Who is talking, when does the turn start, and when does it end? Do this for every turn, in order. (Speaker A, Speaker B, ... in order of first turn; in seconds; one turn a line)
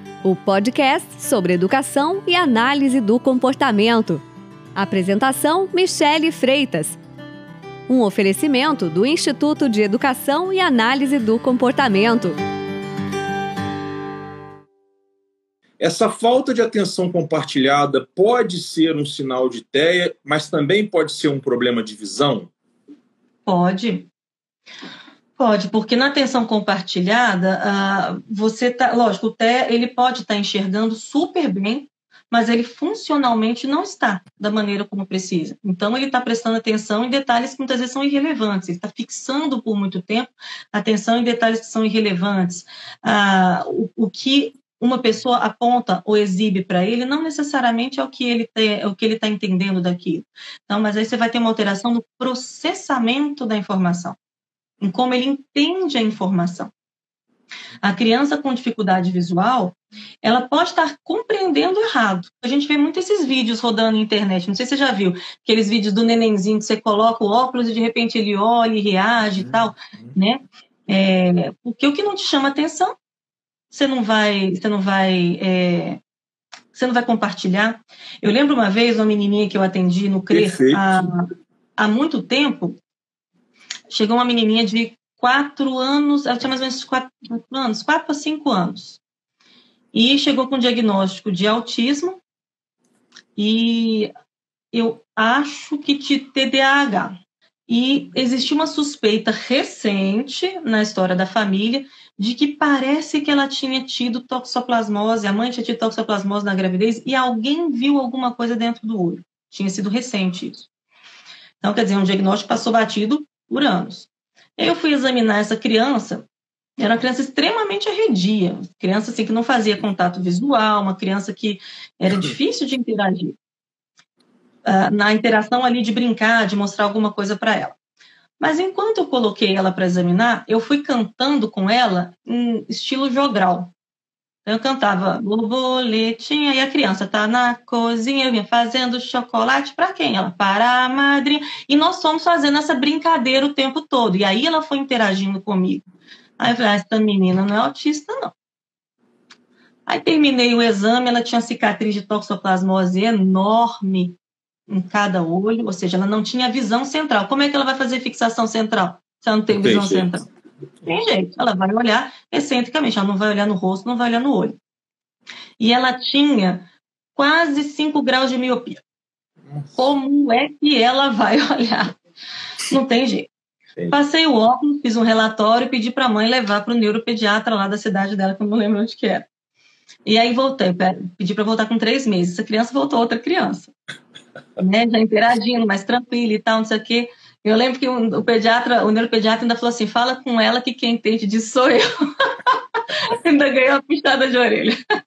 Speaker A: 0.2-4.2
Speaker A: 4.8-7.0
Speaker A: 7.9-12.4
Speaker B: 15.8-22.5
Speaker C: 23.4-24.1
Speaker C: 25.4-54.2
Speaker C: 54.8-56.7
Speaker C: 57.8-72.9
Speaker C: 73.7-76.0
Speaker C: 76.7-82.8
Speaker B: 80.3-80.8
Speaker C: 83.9-89.0
Speaker C: 89.9-92.2
Speaker C: 93.3-94.1
Speaker C: 94.7-110.7
Speaker C: 111.6-116.2
Speaker C: 116.8-123.3
Speaker C: 124.6-127.8
Speaker C: 128.4-133.7
Speaker C: 134.4-145.8
Speaker C: 146.4-148.3
Speaker C: 149.8-154.2
Speaker C: 154.7-160.2
Speaker B: 159.5-160.1
Speaker C: 160.8-164.6
Speaker C: 165.6-168.8
Speaker B: 169.5-169.9
Speaker C: 169.8-172.0
Speaker C: 172.7-173.3
Speaker C: 173.9-179.3
Speaker C: 180.0-183.7
Speaker C: 184.6-191.9
Speaker C: 193.0-194.7